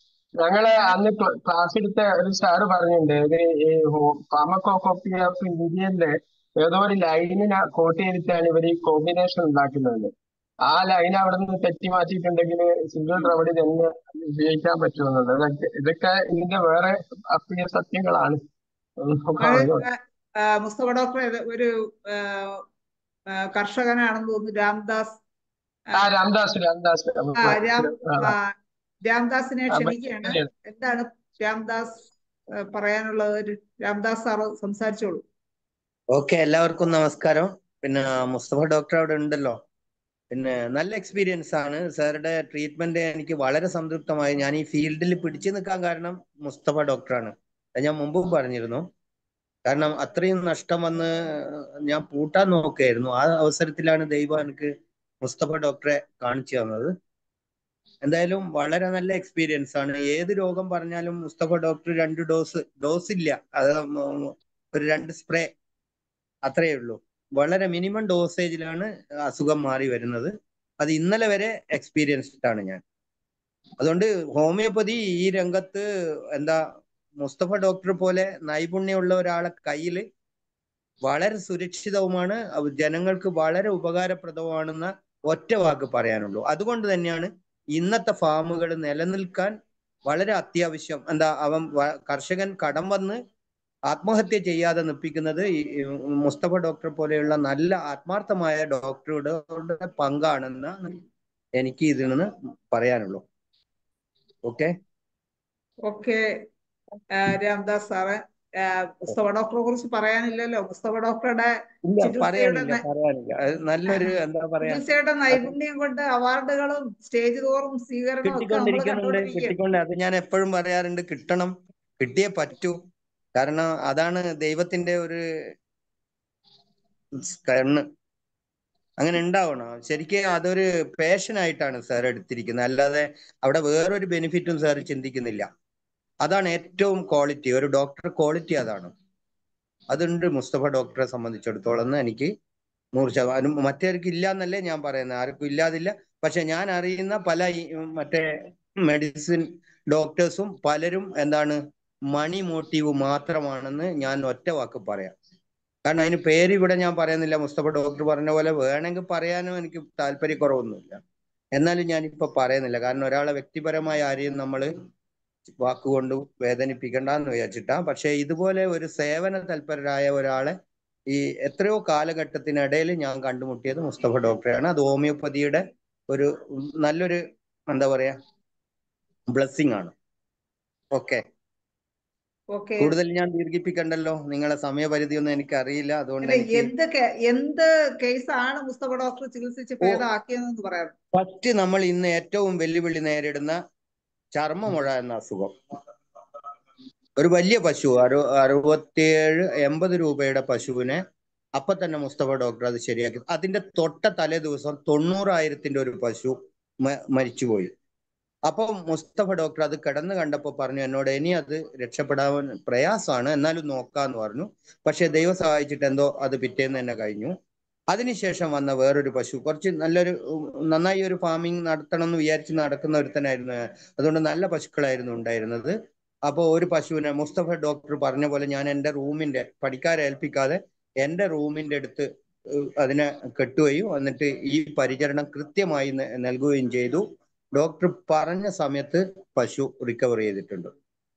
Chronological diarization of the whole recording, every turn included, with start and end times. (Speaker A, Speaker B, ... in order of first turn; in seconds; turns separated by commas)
Speaker A: 0.4-10.1, Speaker A: 10.7-18.4, Speaker A: 19.0-19.8, Speaker B: 19.4-22.6, Speaker B: 23.5-25.1, Speaker A: 25.9-28.3, Speaker B: 27.4-28.5, Speaker B: 29.1-31.9, Speaker A: 29.7-30.5, Speaker B: 32.7-35.2, Speaker C: 36.1-39.6, Speaker C: 40.3-48.8, Speaker C: 49.6-54.7, Speaker C: 55.2-56.9, Speaker C: 58.0-65.5, Speaker C: 66.5-72.8, Speaker C: 73.8-75.8, Speaker C: 76.3-76.6, Speaker C: 77.2-80.0, Speaker C: 81.0-89.5, Speaker C: 90.1-93.2, Speaker C: 93.9-101.0, Speaker C: 101.6-103.2, Speaker C: 104.4-104.7, Speaker B: 105.8-106.2, Speaker B: 107.2-112.8, Speaker C: 111.8-115.5, Speaker B: 113.9-119.6, Speaker C: 118.2-122.8, Speaker C: 123.3-125.2, Speaker C: 127.2-127.8, Speaker C: 129.0-135.5, Speaker C: 136.2-138.9, Speaker C: 139.9-142.3, Speaker C: 142.9-148.3, Speaker C: 148.8-151.6, Speaker C: 152.1-155.1, Speaker C: 155.9-161.0, Speaker C: 161.6-164.7, Speaker C: 165.6-170.6, Speaker C: 171.1-178.2, Speaker C: 179.3-179.9, Speaker C: 180.9-181.2, Speaker B: 182.5-182.9, Speaker C: 182.8-186.7, Speaker B: 186.2-190.9, Speaker C: 191.1-193.6, Speaker C: 194.3-195.5, Speaker C: 197.2-201.0, Speaker C: 201.6-207.7, Speaker C: 208.4-217.3, Speaker C: 217.9-225.7, Speaker C: 226.3-237.0, Speaker C: 237.5-240.7